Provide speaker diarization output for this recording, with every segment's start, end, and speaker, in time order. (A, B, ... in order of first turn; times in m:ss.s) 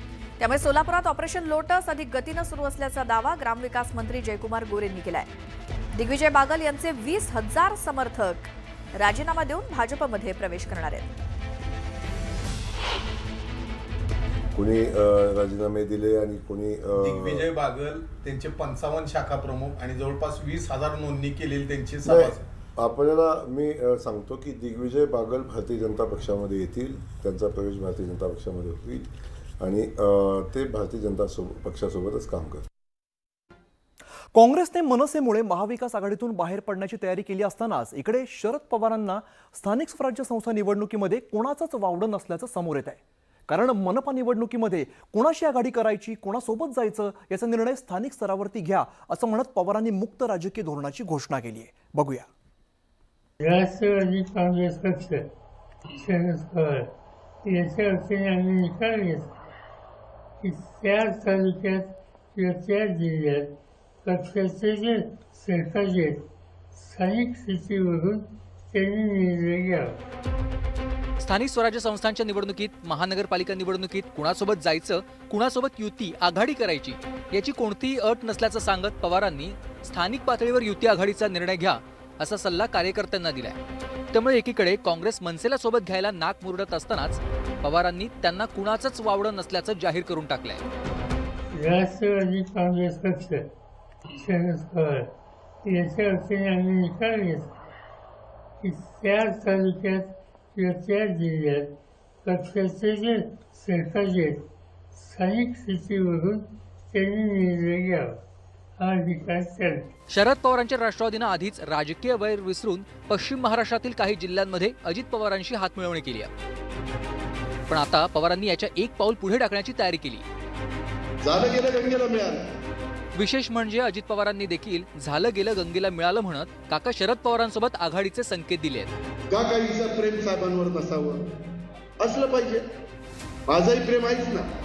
0:00.4-0:05.3 A
0:05.9-0:11.1 A
0:14.5-0:17.5 B
0:17.0-0:22.4 C
0:22.0-0:32.6 B
0:34.3-0:52.3 D
0:53.4-0:55.2 E
0:56.0-0:56.9 E
0:57.4-0:59.3 E
1:00.4-1:03.5 E
1:04.0-1:06.2 E
1:06.8-1:09.9 E
1:11.2-1:23.6 F
1:24.1-1:30.6 F
1:31.5-1:33.4 E
1:34.2-1:35.1 E
1:35.6-1:37.5 E
1:38.6-1:41.7 E
1:42.2-1:44.4 E
1:45.0-1:48.1 E
1:48.8-1:49.9 E
1:50.1-1:56.3 F
1:57.7-2:00.2 F
2:01.2-2:02.4 G
2:03.2-2:08.9 F
2:09.3-2:11.3 G
2:12.0-2:12.6 G
2:13.5-2:14.4 G